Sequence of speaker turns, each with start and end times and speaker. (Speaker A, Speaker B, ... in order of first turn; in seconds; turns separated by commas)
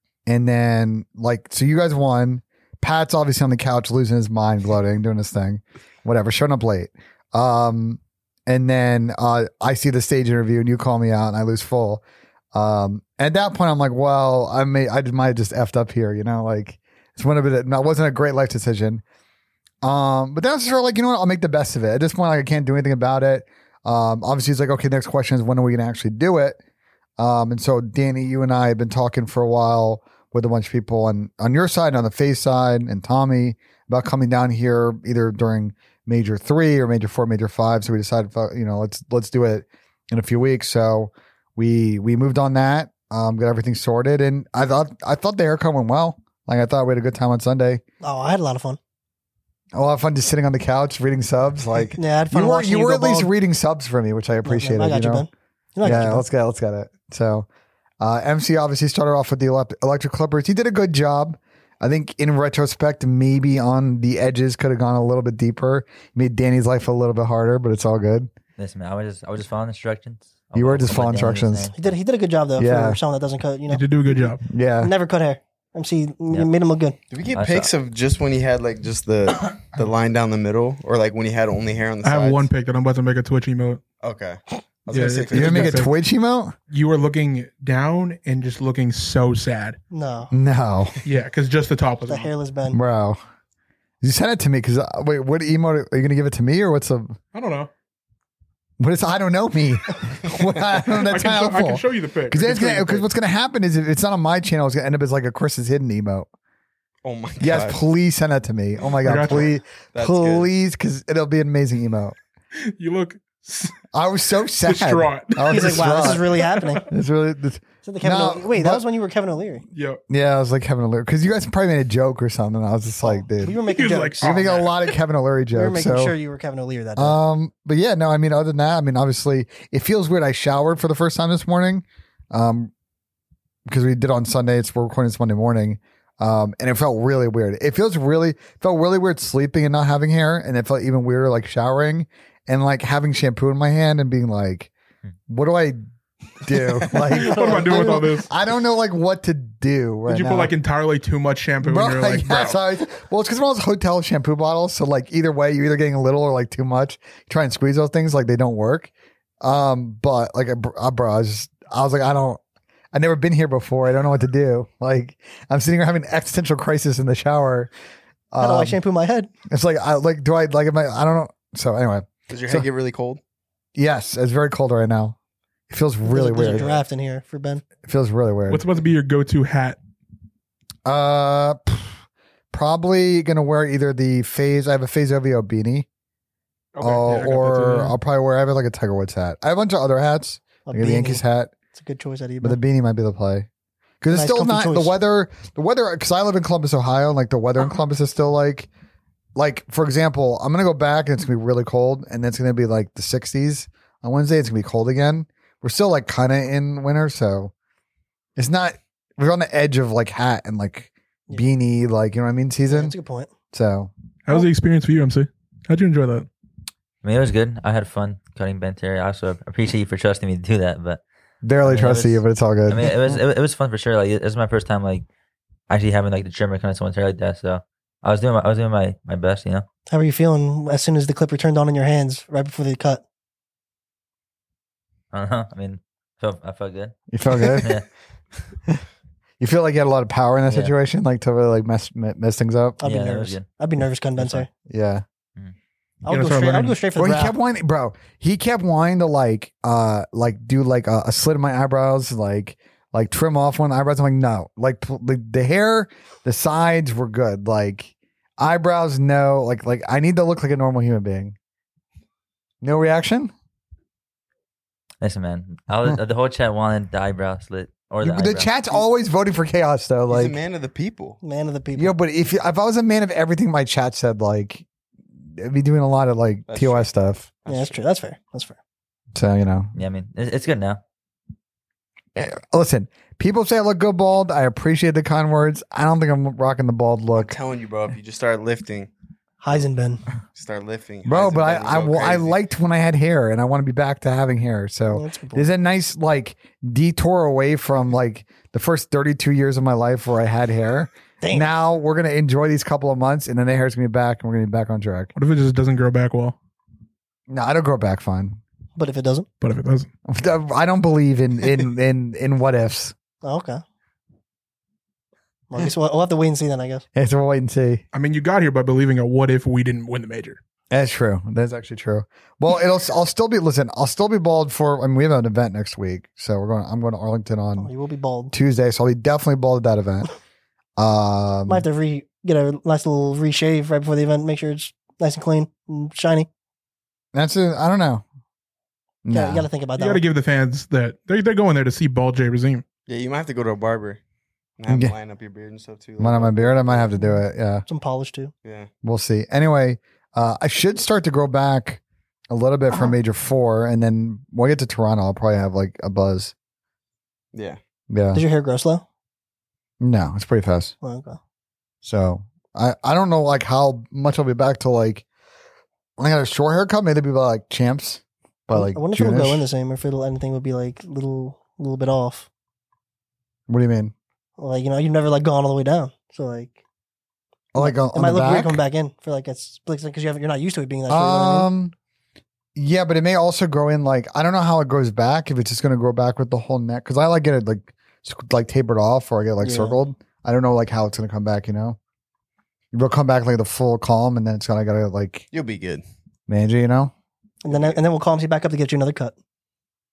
Speaker A: 0.3-19.0, Speaker A: 19.8-26.6, Speaker A: 27.2-47.8, Speaker B: 48.0-48.8, Speaker A: 49.7-55.3, Speaker B: 52.0-53.3, Speaker B: 54.4-56.2, Speaker A: 55.8-57.5, Speaker A: 58.0-68.3, Speaker C: 68.6-72.0, Speaker A: 70.5-71.7, Speaker B: 71.8-73.9, Speaker A: 72.6-73.0, Speaker D: 73.7-74.4, Speaker A: 74.5-74.9, Speaker B: 74.8-77.0, Speaker E: 77.1-82.5, Speaker C: 77.3-77.7, Speaker D: 82.0-83.8, Speaker E: 84.0-85.8, Speaker D: 84.9-85.9, Speaker A: 85.3-86.6, Speaker D: 86.7-89.8, Speaker B: 89.9-90.3, Speaker A: 90.3-91.0, Speaker D: 91.0-92.3, Speaker B: 92.1-92.8, Speaker A: 92.7-93.2, Speaker A: 94.0-97.2, Speaker D: 97.3-97.7, Speaker A: 98.8-106.3, Speaker D: 100.9-103.1, Speaker E: 107.0-107.8, Speaker A: 107.4-112.2, Speaker D: 109.0-109.5, Speaker E: 109.9-110.5, Speaker D: 112.5-113.8, Speaker A: 113.9-116.3, Speaker D: 114.6-116.9, Speaker B: 115.5-116.8, Speaker A: 116.9-118.8, Speaker B: 117.8-119.6, Speaker D: 119.7-120.0, Speaker A: 120.1-123.5, Speaker B: 123.0-124.5, Speaker D: 123.6-124.9, Speaker A: 124.2-126.2, Speaker B: 125.5-127.2, Speaker A: 127.0-132.7, Speaker A: 133.7-144.7, Speaker A: 145.3-145.8, Speaker A: 146.4-150.5, Speaker E: 146.9-147.3, Speaker D: 147.1-148.3, Speaker D: 150.1-152.6, Speaker A: 151.6-162.4, Speaker A: 162.9-167.7, Speaker A: 168.3-168.8, Speaker B: 168.4-169.3, Speaker A: 169.5-172.7, Speaker E: 172.3-173.2, Speaker A: 173.8-175.2, Speaker A: 175.7-176.7, Speaker B: 176.1-177.6, Speaker A: 177.8-178.7, Speaker D: 178.5-179.8, Speaker A: 180.8-182.0, Speaker A: 182.5-185.9, Speaker D: 186.8-187.9, Speaker A: 186.8-191.5, Speaker B: 190.7-191.2, Speaker B: 191.7-192.6, Speaker A: 192.4-193.5, Speaker A: 194.0-198.7, Speaker B: 194.1-195.0, Speaker A: 199.3-207.5, Speaker A: 208.4-213.0, Speaker B: 212.7-213.3, Speaker A: 213.5-213.9, Speaker D: 214.3-216.3, Speaker C: 217.0-221.0, Speaker A: 221.4-223.0, Speaker C: 221.6-225.1, Speaker C: 225.7-229.7, Speaker B: 229.9-233.0, Speaker C: 235.1-237.9, Speaker A: 237.1-237.8, Speaker A: 239.4-242.8, Speaker C: 240.5-240.7, Speaker B: 242.8-244.5, Speaker C: 242.8-243.5, Speaker C: 244.2-244.5, Speaker A: 244.7-245.0, Speaker B: 246.1-247.4, Speaker D: 246.1-246.8, Speaker A: 246.9-261.4, Speaker A: 262.6-263.3, Speaker C: 265.0-268.6, Speaker A: 268.0-270.4, Speaker E: 270.1-271.2, Speaker B: 271.2-271.9, Speaker A: 271.8-274.6, Speaker A: 275.2-277.3, Speaker E: 276.5-276.9, Speaker E: 277.4-277.8, Speaker B: 277.5-278.6, Speaker A: 279.1-279.7, Speaker C: 279.8-280.8, Speaker A: 282.2-287.4, Speaker E: 287.1-288.9, Speaker B: 289.4-290.0, Speaker E: 290.3-292.4, Speaker A: 291.1-305.1, Speaker B: 294.9-295.5, Speaker B: 301.2-301.5, Speaker D: 305.1-306.4, Speaker A: 307.3-308.4, Speaker B: 308.8-309.3, Speaker D: 309.4-309.9, Speaker A: 310.1-312.9, Speaker B: 313.2-313.6, Speaker B: 315.5-316.9, Speaker A: 316.9-317.8, Speaker D: 317.9-320.4, Speaker A: 320.7-327.7, Speaker B: 327.6-328.3, Speaker A: 328.3-330.1, Speaker A: 330.8-331.7, Speaker B: 331.5-336.3, Speaker A: 337.1-338.0, Speaker A: 339.0-339.5, Speaker B: 339.1-340.0, Speaker D: 339.8-342.6, Speaker E: 342.9-344.0, Speaker E: 344.6-347.0, Speaker A: 344.7-344.9, Speaker A: 346.0-347.6, Speaker B: 347.7-348.3, Speaker E: 348.4-348.7, Speaker A: 348.8-356.3, Speaker E: 357.3-357.6, Speaker A: 357.9-358.2, Speaker B: 358.1-358.8, Speaker A: 359.8-360.7, Speaker B: 360.8-361.2, Speaker A: 361.8-365.1, Speaker A: 366.0-369.4, Speaker B: 368.5-372.3, Speaker A: 373.5-373.9, Speaker B: 374.4-376.6, Speaker A: 377.5-378.6, Speaker B: 377.6-381.5, Speaker A: 380.9-381.7, Speaker A: 382.6-391.8, Speaker B: 389.4-389.8, Speaker A: 392.7-395.3, Speaker E: 395.3-395.8, Speaker A: 396.3-396.9, Speaker B: 397.4-399.2, Speaker E: 397.5-397.8